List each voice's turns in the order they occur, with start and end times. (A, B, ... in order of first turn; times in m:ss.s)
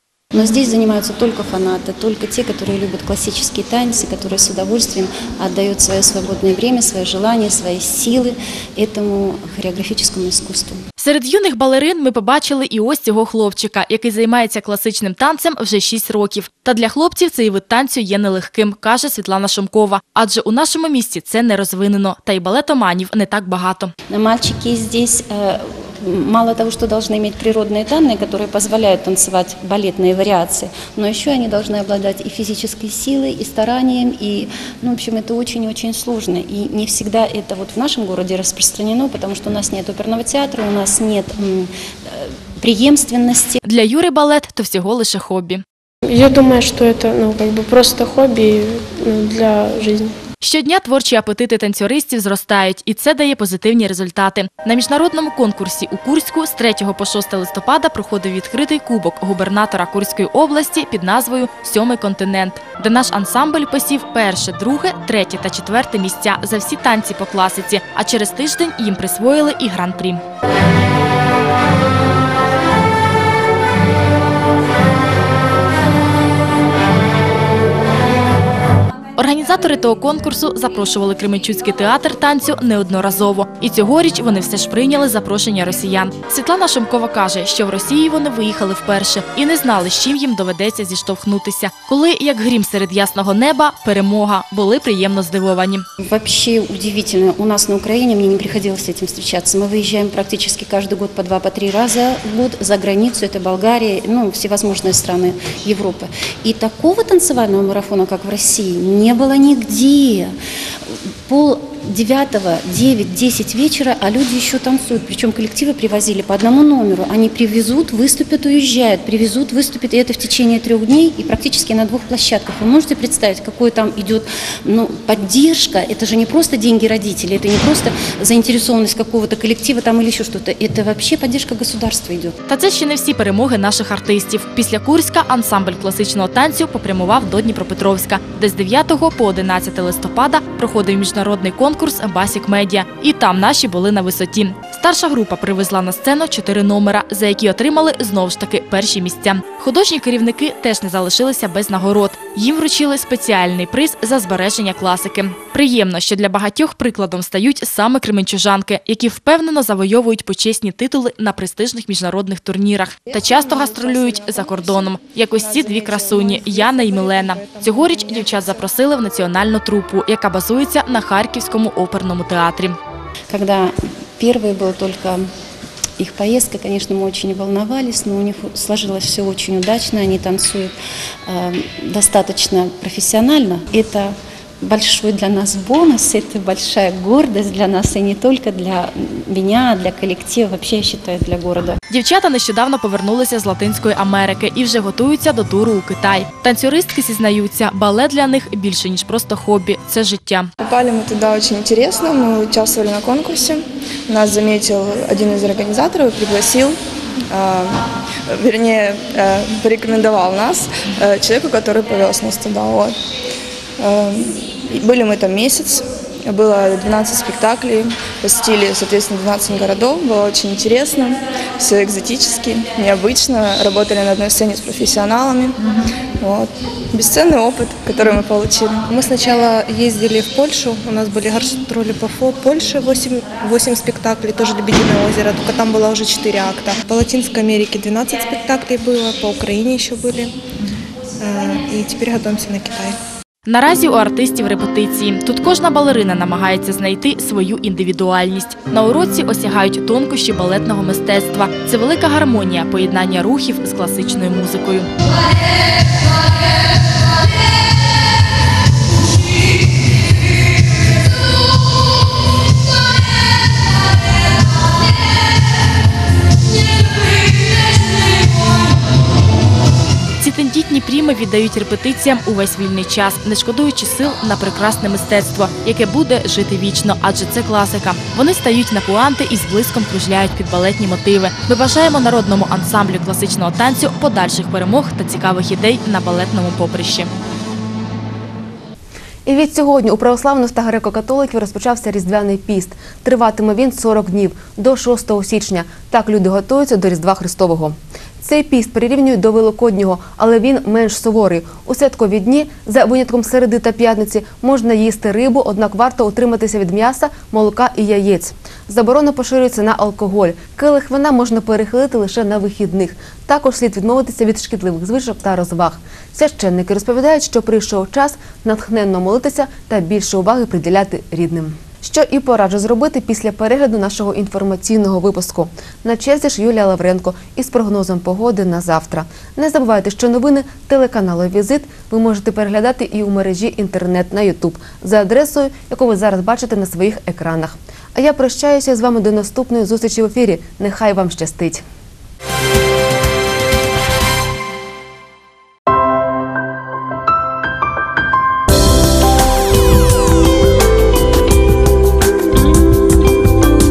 0:00.3-0:10.8 A
0:11.0-0:23.9 B
0:24.1-0:43.6 A
0:43.6-0:45.6 B
0:46.0-0:50.2 C
0:50.4-1:10.2 B
1:19.2-1:35.8 B
1:36.0-1:50.4 A
1:50.9-2:12.4 A
2:12.5-2:52.8 B
2:43.1-2:48.6 D
2:53.3-2:55.3 A
2:56.0-3:11.8 A
3:11.9-3:20.5 B
3:20.6-3:26.8 D
3:27.3-3:33.0 D
3:33.8-3:45.6 D
3:46.2-3:48.8 D
3:48.9-4:00.4 E
4:01.2-4:03.0 E
4:03.4-4:14.9 B
4:30.2-4:47.1 B
4:49.2-5:41.6 F